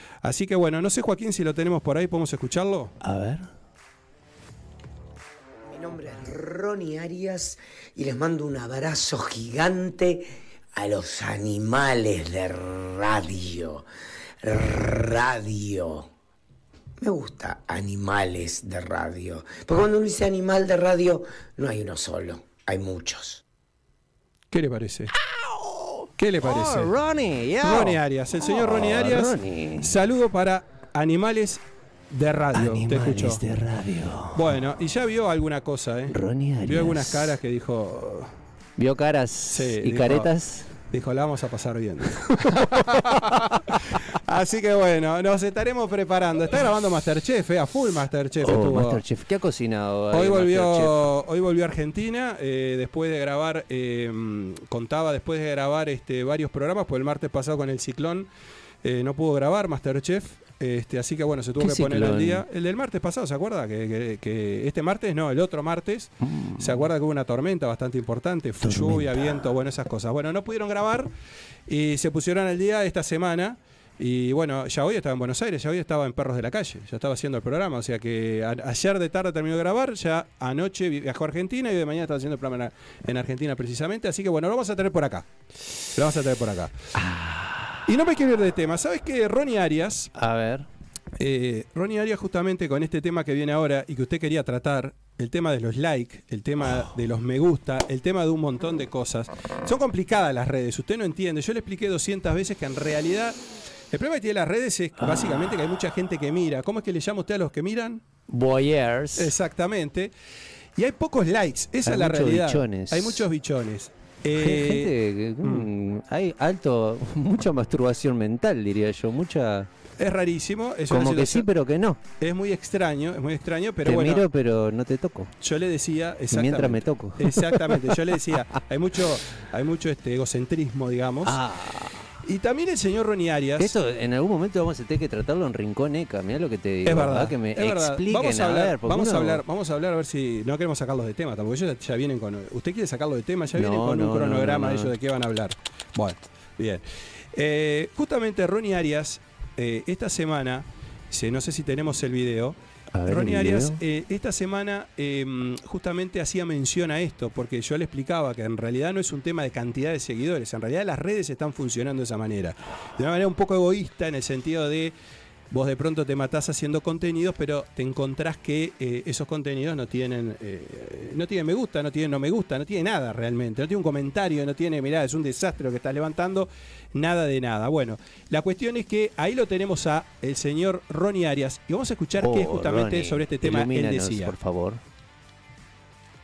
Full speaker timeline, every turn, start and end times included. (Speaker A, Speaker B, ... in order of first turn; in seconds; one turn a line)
Speaker A: 0.2-2.9
Speaker B: 3.0-3.5
Speaker C: 5.7-13.8
Speaker C: 14.4-16.1
Speaker C: 17.0-23.4
Speaker A: 24.5-25.1
Speaker B: 25.4-29.9
Speaker A: 26.2-26.9
Speaker A: 27.6-33.4
Speaker B: 32.5-34.5
Speaker A: 34.3-38.3
Speaker B: 36.1-37.4
Speaker B: 38.8-40.7
Speaker A: 39.5-40.3
Speaker A: 40.9-49.0
Speaker B: 42.3-43.5
Speaker B: 48.4-51.0
Speaker A: 50.1-58.3
Speaker A: 58.8-71.1
Speaker B: 61.6-62.4
Speaker B: 66.2-66.8
Speaker B: 68.6-69.3
Speaker A: 71.7-85.3
Speaker A: 85.9-86.7
Speaker B: 87.0-87.8
Speaker A: 87.8-90.1
Speaker B: 90.2-90.7
Speaker A: 91.2-103.4
Speaker A: 103.9-108.0
Speaker B: 105.0-105.5
Speaker B: 108.3-109.3
Speaker A: 109.2-110.1
Speaker A: 110.8-115.7
Speaker B: 111.8-113.2
Speaker B: 114.3-119.7
Speaker A: 120.0-121.5
Speaker B: 120.9-122.0
Speaker A: 122.2-124.2
Speaker B: 123.8-125.3
Speaker A: 125.4-131.4
Speaker B: 126.3-128.0
Speaker B: 131.2-132.1
Speaker A: 132.2-133.8
Speaker B: 133.6-139.4
Speaker A: 136.8-164.9
Speaker B: 143.5-144.9
Speaker B: 152.9-153.8
Speaker A: 165.5-184.3
Speaker B: 182.2-184.8